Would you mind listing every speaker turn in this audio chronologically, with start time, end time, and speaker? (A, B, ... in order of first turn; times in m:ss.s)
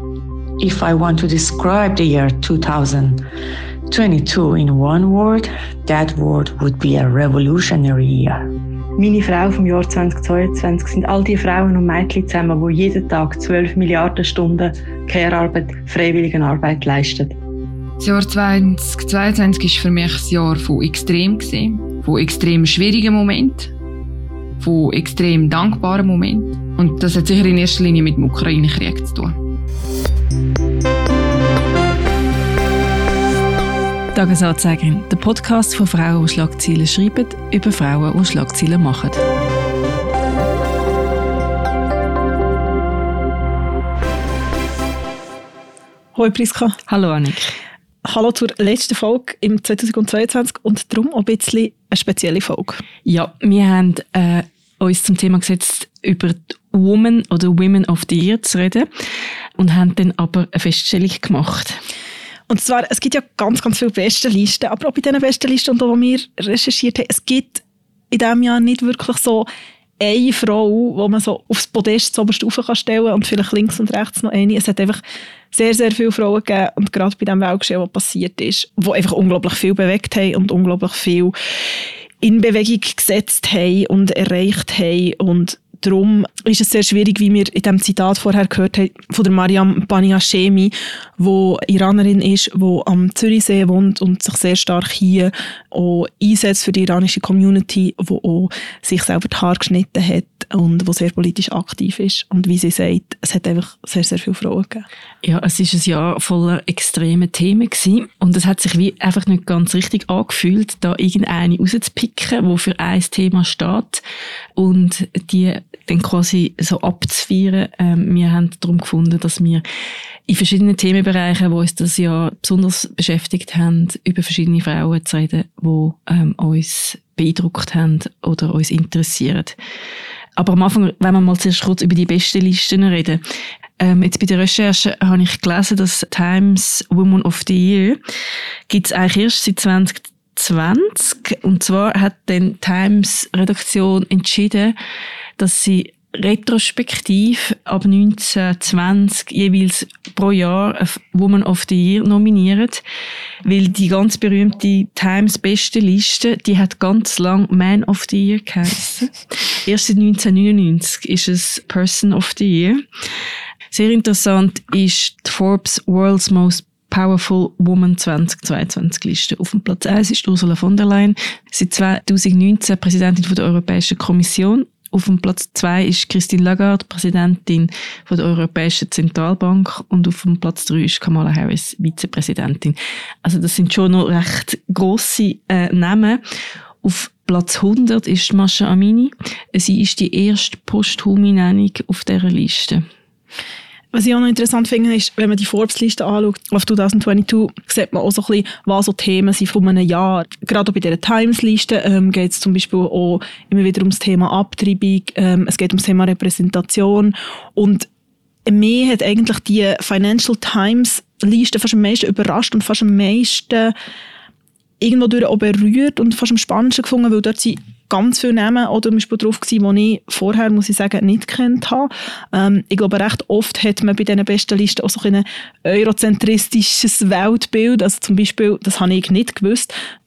0:00.6-0:03.2 A
0:03.9-0:08.5 A
0:09.0-0:17.3 B
0:18.0-0:23.7 C
0:24.6-0:29.4 C
0:34.1-0:39.2 D
0:46.2-0:46.8 E
0:46.9-0:47.6 D
0:48.0-0:52.8 E
0:53.0-0:58.9 D
0:59.6-1:01.8 D
1:02.5-1:09.5 E
1:10.0-1:15.0 E
1:15.5-1:21.4 E
1:22.2-1:44.8 E
1:45.2-1:54.0 D
1:54.6-1:59.6 D
2:00.3-2:09.6 D
2:10.4-2:13.2 D
2:13.8-2:18.0 D
2:18.7-2:24.8 D
2:25.4-2:32.8 D
2:33.4-2:42.8 D
2:43.7-3:06.2 D
3:06.8-3:12.8 D
3:13.9-3:27.9 E
3:28.5-3:33.7 E
3:34.8-3:49.7 E